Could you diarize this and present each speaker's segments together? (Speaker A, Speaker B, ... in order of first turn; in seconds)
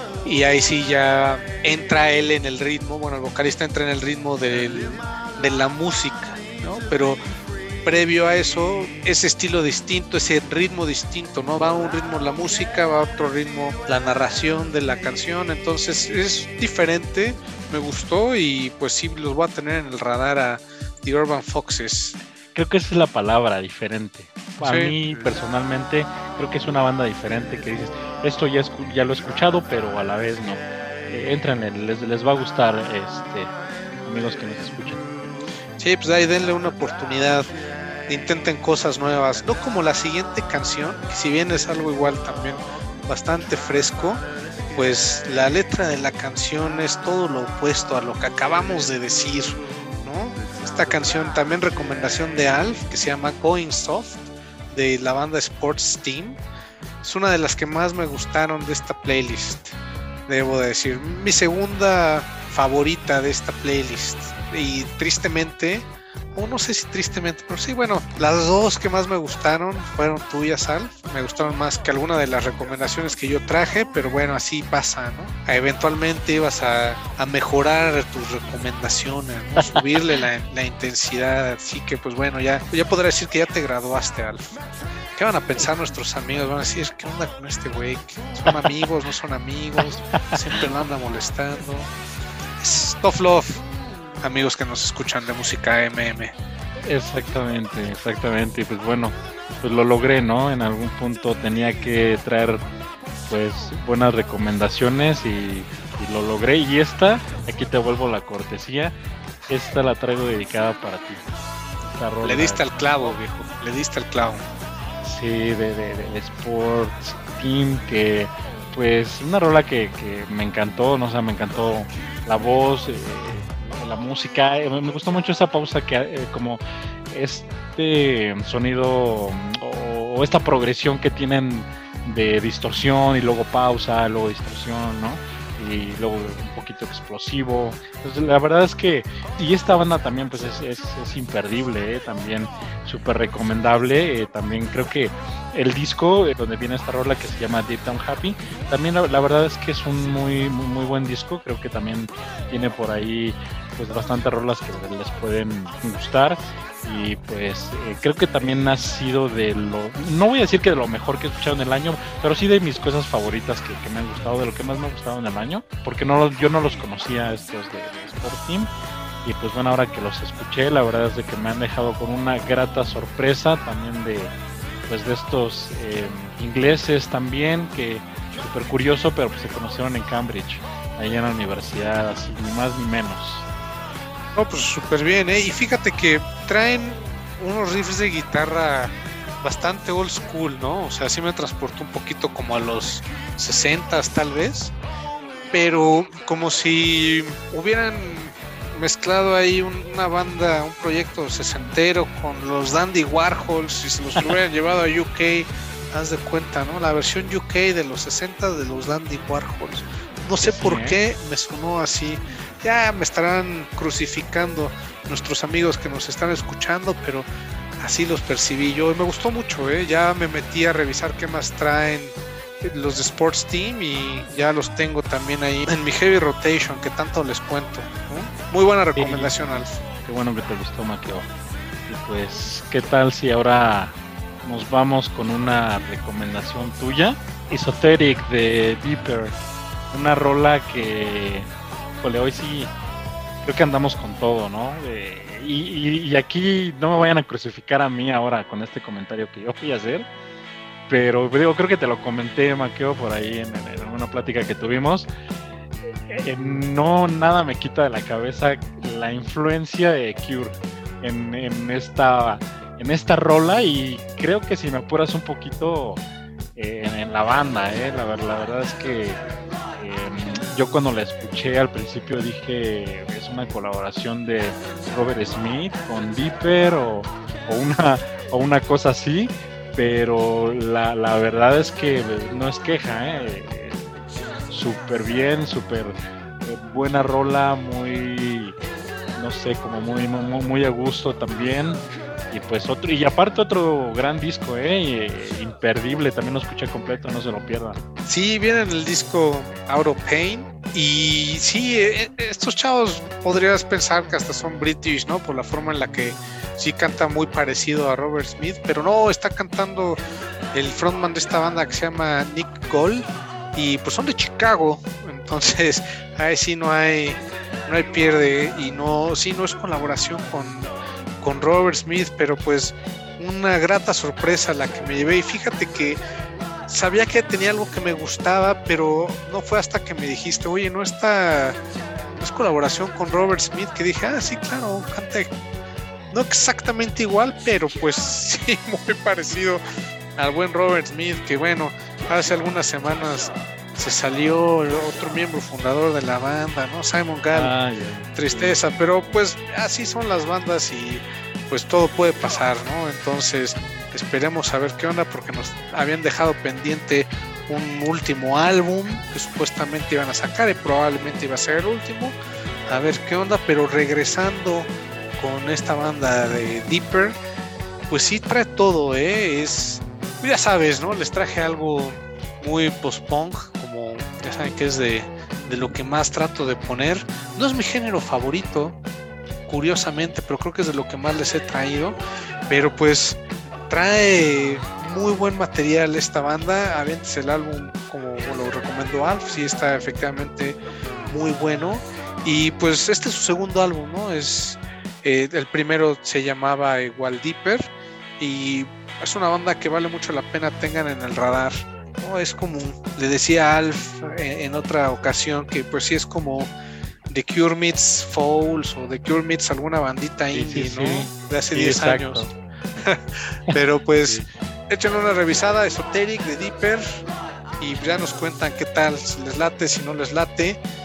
Speaker A: 0.2-7.2, 7.8-22.1, 24.6-24.9, 35.8-37.5, 38.1-56.4, 57.0-84.6, 85.1-91.9, 92.6-93.6, 94.2-96.3, 112.2-114.4, 184.3-194.7, 195.5-217.3, 217.8-229.8, 298.1-310.0, 310.5-326.0, 326.7-331.6, 332.2-335.3, 336.1-339.6, 340.2-347.5, 348.1-362.1, 362.7-367.2, 367.9-378.8, 379.5-406.5, 407.1-412.2, 412.8-417.0, 417.6-420.6
Speaker B: 22.5-35.0, 79.6-79.9, 88.4-88.8, 89.8-90.4, 96.8-102.7, 103.3-109.0, 109.5-111.2, 111.8-112.7, 115.0-168.7, 169.2-174.3, 174.8-183.4, 210.4-211.0, 228.9-229.3, 230.0-231.3, 231.9-239.4, 239.9-241.5, 242.0-242.7, 243.4-250.1, 250.9-255.1, 256.1-266.0, 266.6-269.2, 269.8-283.9, 284.5-288.6, 289.1-297.8, 347.3-348.6, 410.3-412.3